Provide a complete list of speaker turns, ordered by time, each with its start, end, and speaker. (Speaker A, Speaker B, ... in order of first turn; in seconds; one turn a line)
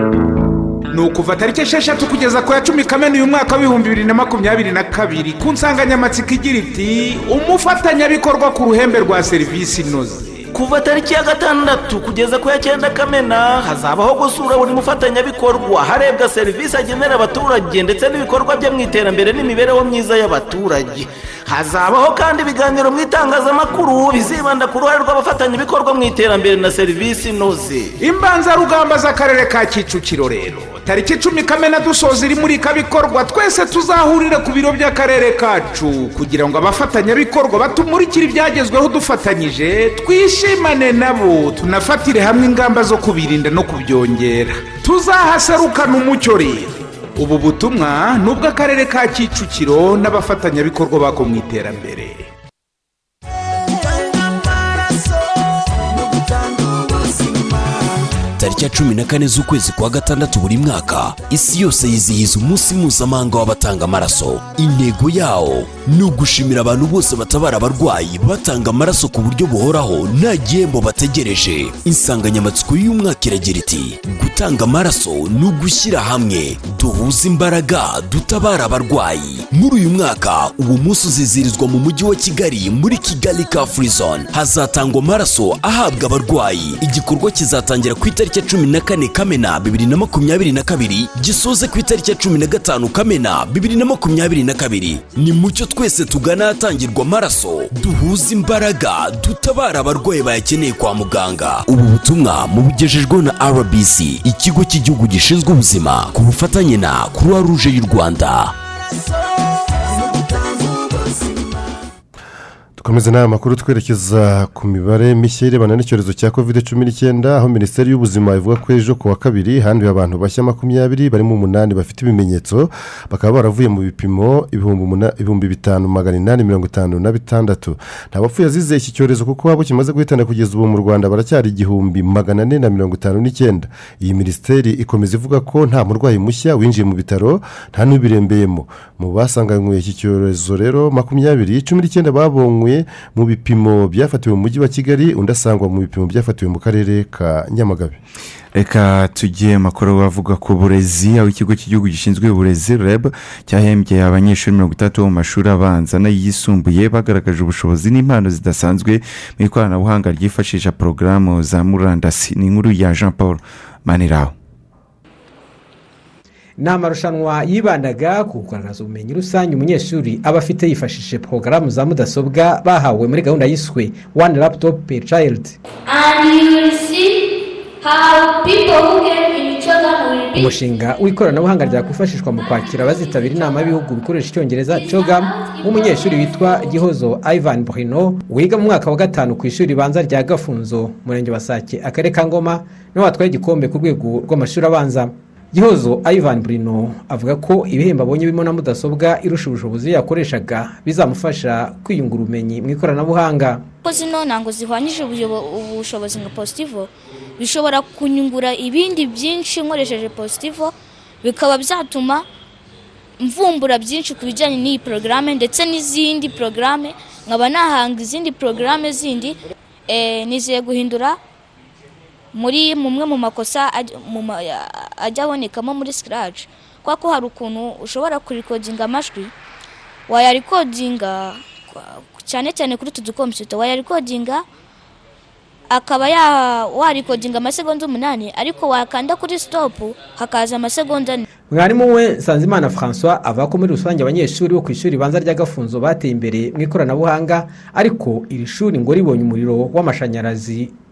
Speaker A: 0.9-10.5
Speaker B: 10.5-27.9
Speaker A: 28.0-52.3
Speaker C: 58.4-108.5
Speaker D: 112.8-148.0
Speaker E: 148.5-164.3
Speaker F: 166.6-175.6
Speaker G: 175.9-177.2
Speaker G: 177.8-180.5
Speaker F: 180.3-203.6
Speaker G: 203.8-212.2
Speaker G: 213.2-219.4
Speaker G: 219.9-221.2
Speaker G: 222.3-229.3
Speaker G: 230.1-234.4
Speaker G: 235.7-241.2
Speaker F: 241.5-250.7